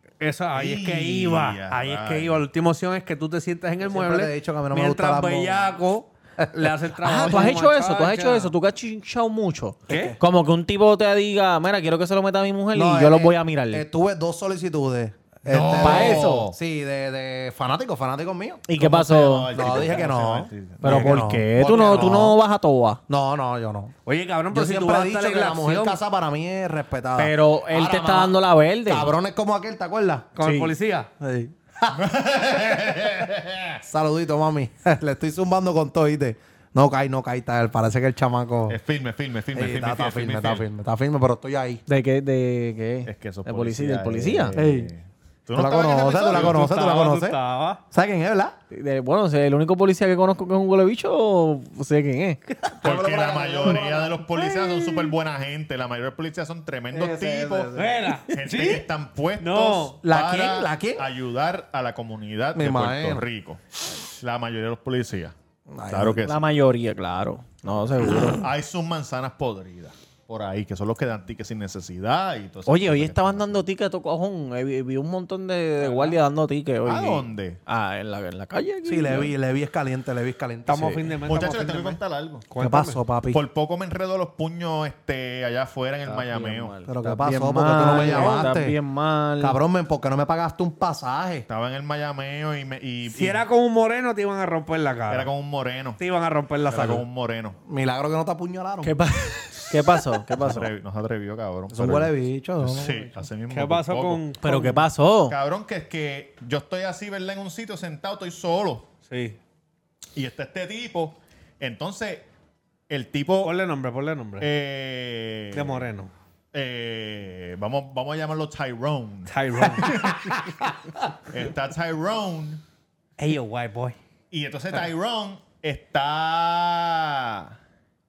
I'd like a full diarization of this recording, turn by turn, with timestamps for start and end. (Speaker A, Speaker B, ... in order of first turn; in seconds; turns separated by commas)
Speaker A: 0.2-8.5, Speaker B: 0.6-2.5, Speaker C: 3.9-5.7, Speaker D: 7.0-13.8, Speaker C: 9.9-10.2, Speaker A: 9.9-10.1, Speaker C: 12.7-18.6, Speaker B: 15.5-16.6, Speaker D: 15.8-16.5, Speaker D: 18.7-19.5, Speaker B: 18.7-21.2, Speaker C: 19.5-22.4, Speaker D: 20.8-23.0, Speaker C: 23.1-23.9, Speaker A: 24.1-26.0, Speaker C: 24.5-30.3, Speaker D: 27.2-29.1, Speaker A: 30.4-31.1, Speaker D: 30.4-30.7, Speaker C: 31.2-32.0, Speaker B: 31.9-33.8, Speaker C: 33.8-38.8, Speaker B: 38.7-40.7, Speaker C: 39.5-41.8, Speaker D: 41.9-44.6, Speaker B: 43.0-46.6, Speaker C: 44.6-44.9, Speaker C: 45.6-47.4, Speaker A: 46.3-47.8, Speaker C: 47.9-48.5, Speaker D: 48.7-52.4, Speaker C: 52.7-54.6, Speaker B: 52.8-57.7, Speaker C: 56.9-58.1, Speaker A: 57.8-58.8, Speaker B: 58.3-65.3, Speaker A: 59.4-60.0, Speaker C: 60.0-61.1, Speaker C: 62.5-63.2, Speaker C: 65.7-66.2, Speaker B: 65.9-66.5, Speaker D: 66.2-68.5, Speaker B: 67.7-73.7, Speaker D: 72.7-79.3, Speaker A: 75.8-76.2, Speaker B: 76.8-77.6, Speaker C: 78.8-81.0, Speaker A: 80.7-83.0, Speaker B: 81.3-82.5, Speaker C: 82.6-83.4, Speaker B: 83.3-86.7, Speaker D: 86.0-89.6, Speaker C: 86.9-88.8, Speaker A: 87.9-88.4, Speaker C: 89.4-91.5, Speaker B: 91.5-93.4, Speaker A: 93.1-95.3, Speaker B: 95.1-96.0, Speaker A: 96.0-97.0, Speaker B: 96.7-97.6, Speaker C: 97.7-99.0, Speaker D: 98.8-100.7, Speaker B: 100.4-104.2, Speaker C: 101.7-103.1, Speaker A: 103.5-104.9, Speaker D: 104.4-105.4, Speaker B: 105.3-108.9, Speaker A: 109.1-109.4, Speaker B: 110.2-112.3, Speaker B: 112.9-113.5, Speaker A: 113.4-114.5, Speaker B: 114.4-115.9, Speaker A: 115.5-116.1, Speaker B: 116.5-120.7, Speaker A: 119.3-120.4, Speaker B: 121.3-122.6, Speaker A: 123.2-124.0, Speaker B: 124.3-127.6